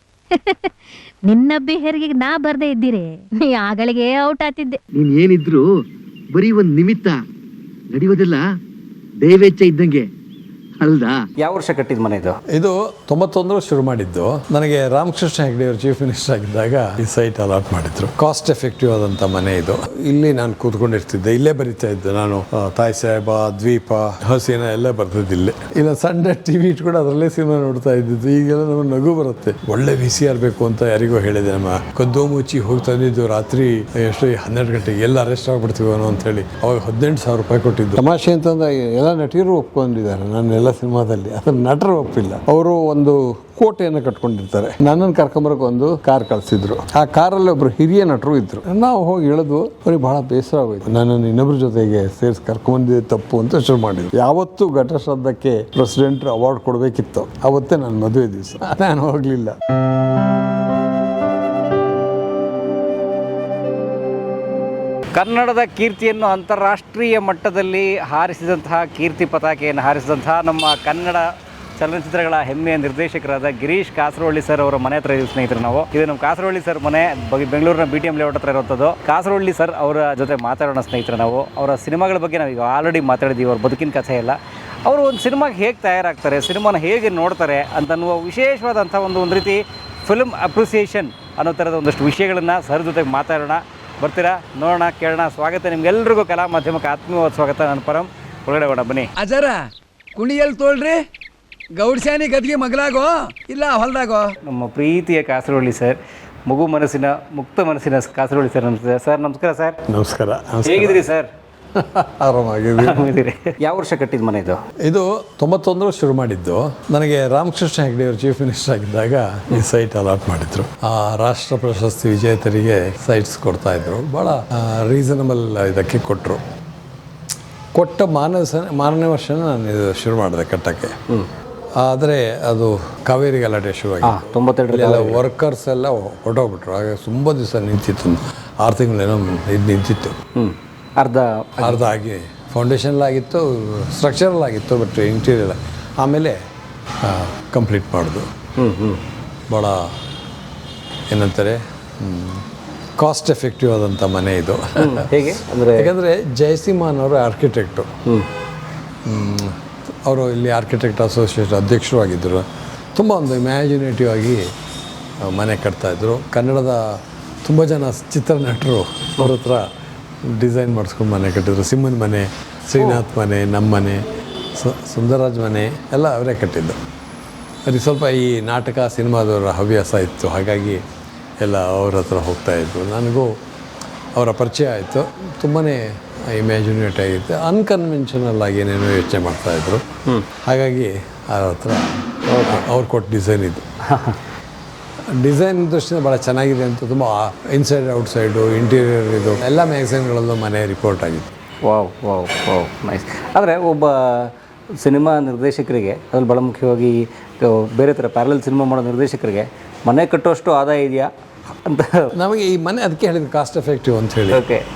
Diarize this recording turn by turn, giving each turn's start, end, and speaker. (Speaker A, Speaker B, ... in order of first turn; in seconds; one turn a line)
Speaker A: 0.3-0.7
Speaker A: 1.2-4.8
Speaker B: 4.9-5.7
Speaker B: 6.3-7.2
Speaker B: 7.9-8.4
Speaker B: 9.2-10.1
Speaker B: 10.8-11.2
Speaker C: 11.4-12.4
Speaker D: 12.5-59.6
Speaker C: 65.1-99.1
Speaker E: 99.2-99.6
Speaker E: 100.2-101.0
Speaker E: 101.8-104.3
Speaker C: 104.4-109.8
Speaker D: 109.9-111.0
Speaker C: 110.6-111.3
Speaker D: 111.7-113.2
Speaker C: 112.8-114.6
Speaker D: 114.8-126.4
Speaker D: 127.7-130.9
Speaker D: 131.8-140.2
Speaker C: 134.0-135.2
Speaker C: 140.3-141.8
Speaker D: 141.6-146.4
Speaker D: 147.0-148.3
Speaker C: 148.6-149.0
Speaker D: 149.5-149.9
Speaker D: 151.1-152.4
Speaker D: 153.0-157.9
Speaker C: 154.8-155.9
Speaker D: 159.1-164.5
Speaker D: 165.2-169.7
Speaker D: 170.2-174.0
Speaker D: 174.5-176.8
Speaker D: 177.7-180.8
Speaker D: 181.4-183.3
Speaker D: 184.1-189.8
Speaker D: 190.4-193.6
Speaker C: 192.3-192.7
Speaker C: 193.9-194.2
Speaker D: 195.1-201.3
Speaker C: 201.6-211.1
Speaker C: 211.6-212.1
Speaker D: 212.1-214.4
Speaker C: 214.3-214.6